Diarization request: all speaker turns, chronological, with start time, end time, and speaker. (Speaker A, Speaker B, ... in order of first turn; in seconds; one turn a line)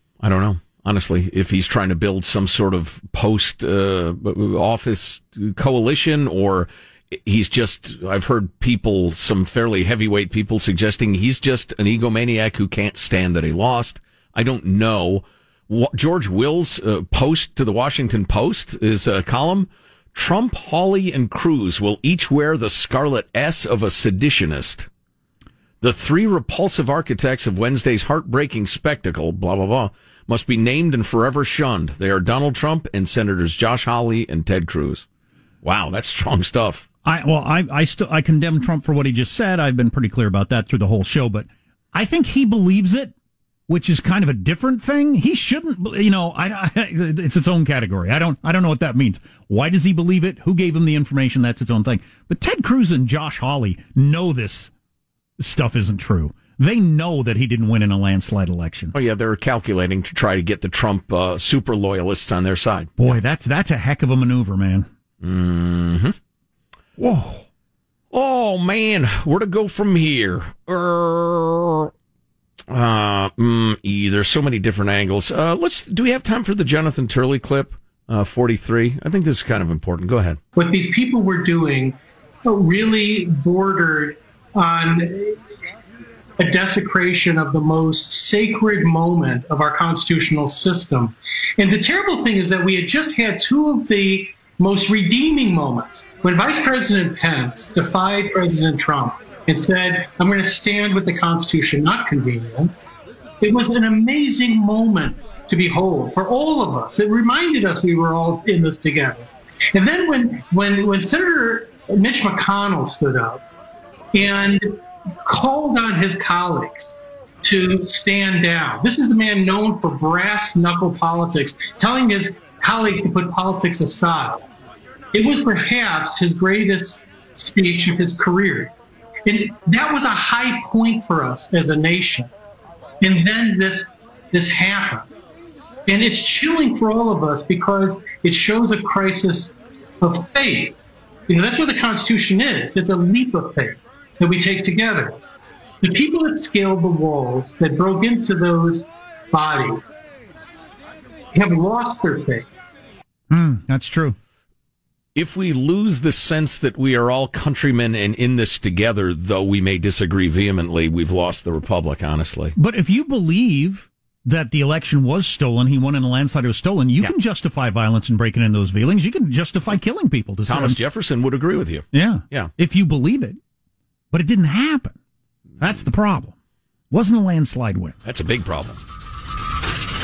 Speaker A: 0.2-24.9
Speaker A: 25.8-35.0
Speaker A: 35.6-36.9
Speaker B: 37.0-43.1
Speaker B: 43.7-54.7
Speaker B: 55.4-59.0
Speaker A: 58.9-63.2
Speaker B: 63.0-64.9
Speaker A: 65.2-66.2
Speaker B: 67.0-67.5
Speaker A: 68.1-71.9
Speaker A: 72.7-80.4
Speaker C: 80.6-85.4
Speaker C: 86.4-102.9
Speaker C: 103.4-113.4
Speaker C: 114.1-124.5
Speaker C: 125.1-128.7
Speaker C: 129.3-132.3
Speaker C: 133.0-135.1
Speaker C: 135.9-145.2
Speaker C: 145.8-149.9
Speaker C: 151.3-152.5
Speaker B: 153.3-154.2
Speaker A: 155.2-162.6
Speaker B: 162.6-170.8
Speaker A: 170.5-172.5
Speaker B: 171.9-173.4
Speaker B: 174.1-175.0
Speaker B: 175.6-176.3
Speaker B: 176.9-178.0
Speaker A: 178.1-178.8